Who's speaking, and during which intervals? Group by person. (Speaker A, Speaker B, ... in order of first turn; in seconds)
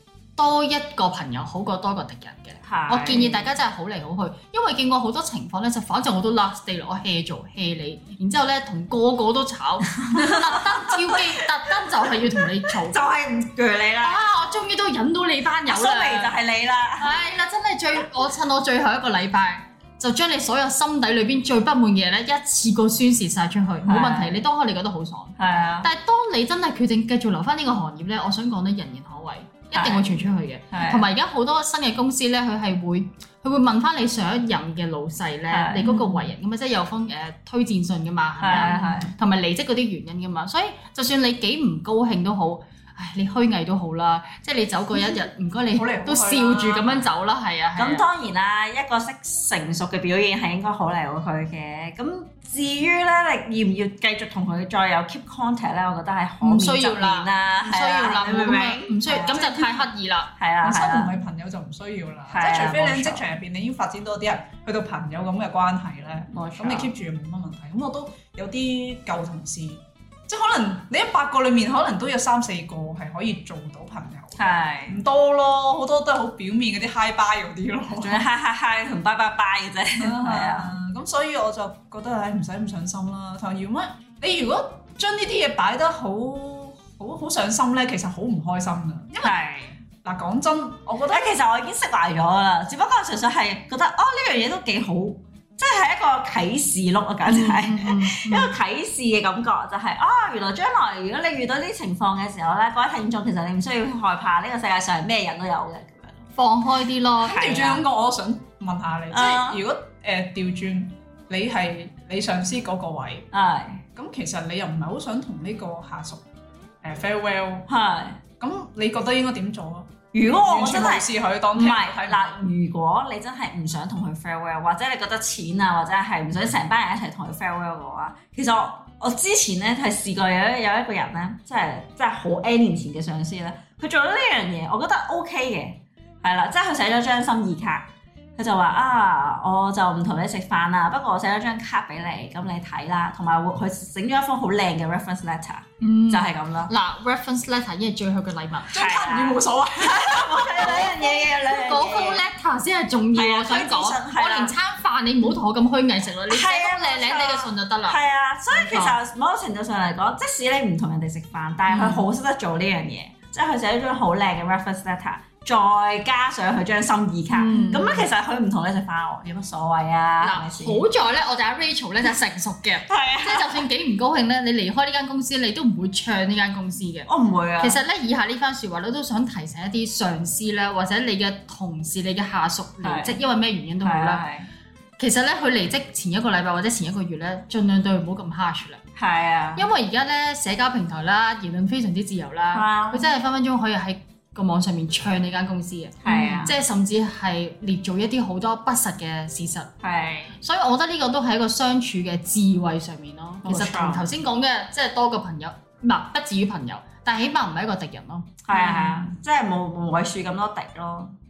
Speaker A: 0.4-13.0, 14.0-16.3, 17.0-48.0, 56.4-60.3, 97.2-98.5, 106.3-107.7, 145.8-148.8, 150.6-158.0, 158.5-158.9, 161.7-162.0, 167.3-168.1, 170.2-177.1, 177.6-184.2, 185.0-188.8, 189.6-199.7, 200.4-208.4
Speaker B: 2.6-3.5, 10.1-11.2, 12.1-14.2, 15.7-17.1, 23.8-24.4, 25.4-25.9, 29.7-31.1, 35.5-36.3, 38.4-39.1, 47.8-59.8, 60.4-61.1, 62.3-63.3, 66.3-66.9, 74.3-75.0, 77.9-80.8, 89.2-89.8, 91.1-106.2, 107.3-107.8, 109.1-109.6, 113.3-113.8, 117.7-118.2, 120.1-146.7, 148.7-152.2, 153.1-154.5, 156.3-170.8, 172.8-173.6, 177.1-177.8, 182.8-183.2, 183.8-184.5, 188.9-189.7, 192.5-193.1, 196.0-196.6, 199.8-200.3, 203.4-204.1, 208.4-211.1
Speaker C: 45.7-47.0, 60.6-78.2, 80.0-89.3, 90.0-91.3, 107.2-113.3, 114.0-116.2, 116.8-117.7, 118.4-122.3, 148.7-150.9, 208.6-209.1